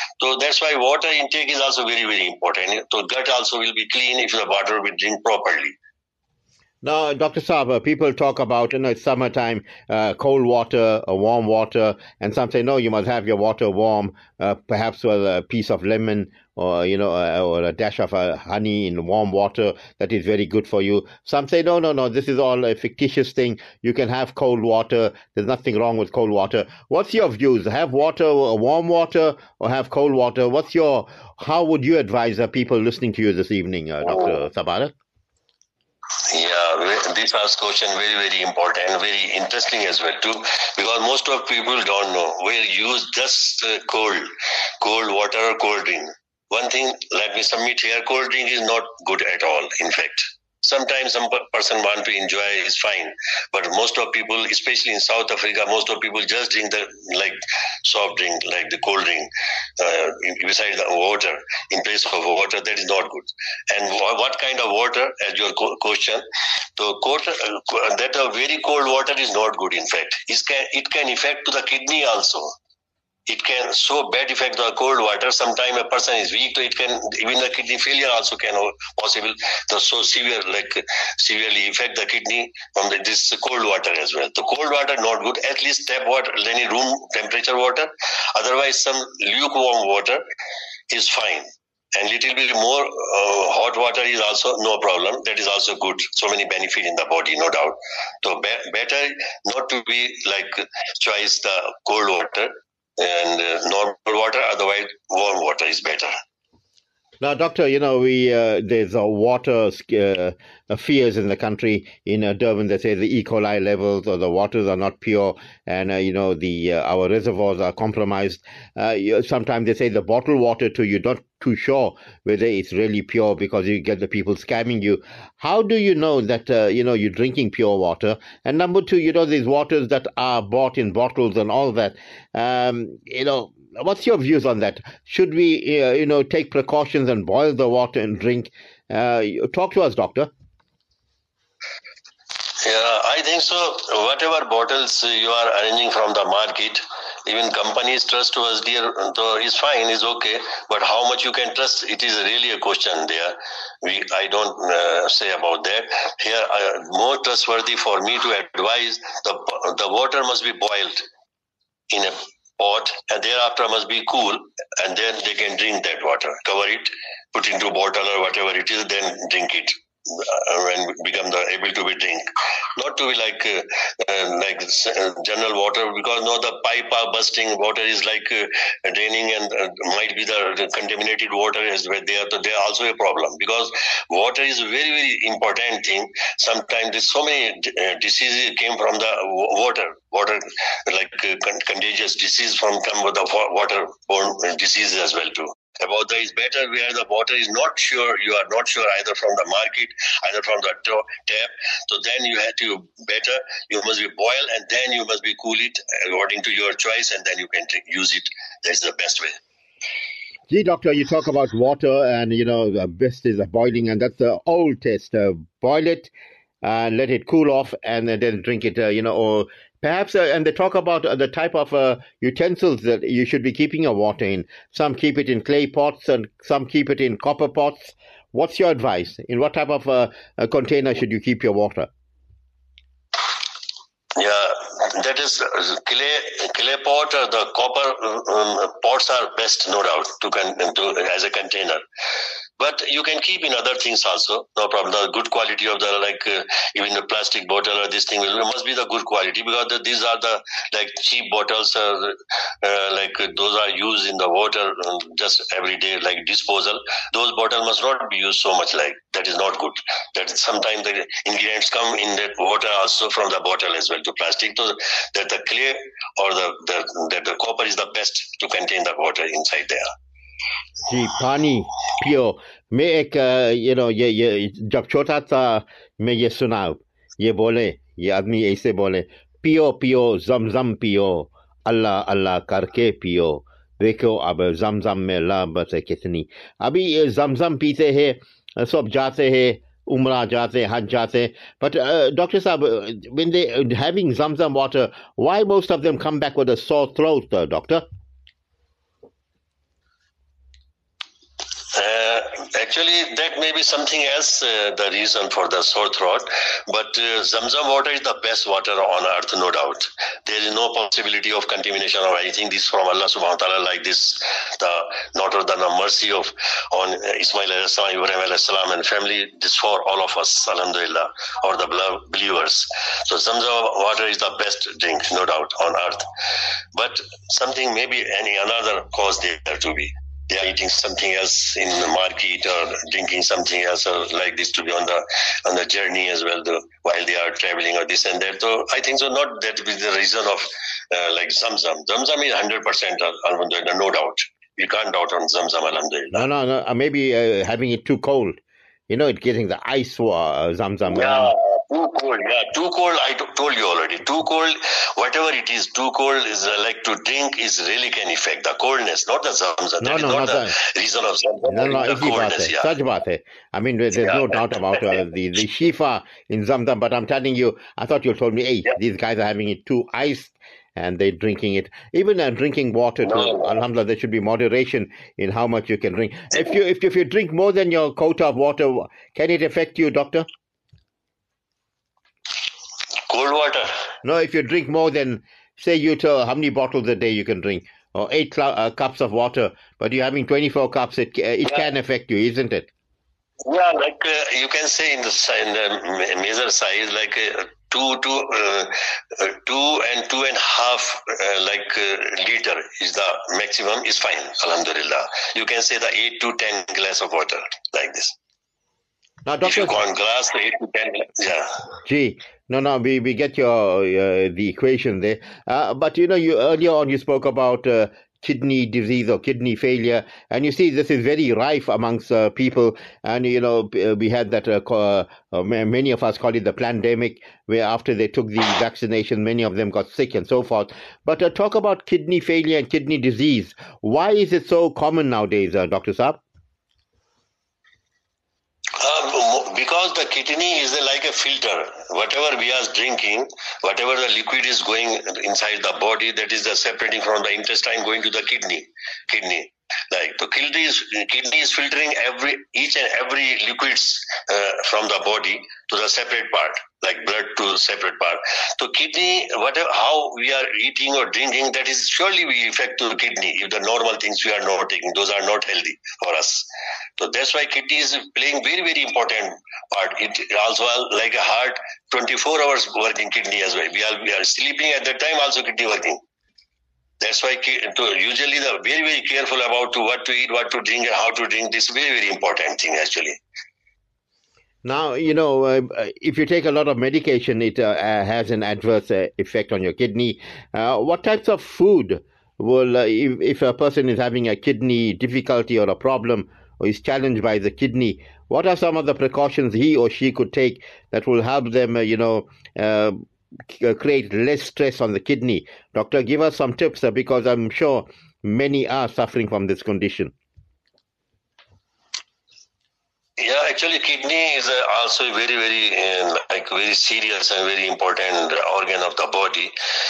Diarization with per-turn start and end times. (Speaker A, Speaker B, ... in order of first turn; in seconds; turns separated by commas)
Speaker A: 0.2-5.8, Speaker B: 6.8-34.9, Speaker A: 36.3-44.3, Speaker A: 44.8-66.2, Speaker A: 66.8-72.5, Speaker A: 73.3-90.2, Speaker A: 90.9-106.1, Speaker B: 107.2-140.3, Speaker A: 142.6-161.1, Speaker A: 161.9-209.4, Speaker B: 210.5-216.1, Speaker B: 216.6-231.9, Speaker A: 234.2-241.8, Speaker A: 242.6-269.9, Speaker B: 270.9-297.8, Speaker A: 301.7-326.1, Speaker A: 326.7-346.3, Speaker B: 346.1-348.4, Speaker B: 348.9-351.3, Speaker A: 350.9-362.7, Speaker B: 359.8-360.6, Speaker B: 361.4-380.3, Speaker A: 364.0-364.6, Speaker A: 373.1-373.5, Speaker A: 383.1-383.7, Speaker B: 384.0-392.7, Speaker A: 393.5-408.2, Speaker B: 409.3-409.8, Speaker A: 409.4-411.6, Speaker B: 411.9-436.2, Speaker A: 438.8-466.5, Speaker A: 467.0-476.0, Speaker A: 477.0-483.2, Speaker B: 484.6-510.1, Speaker A: 513.2-519.5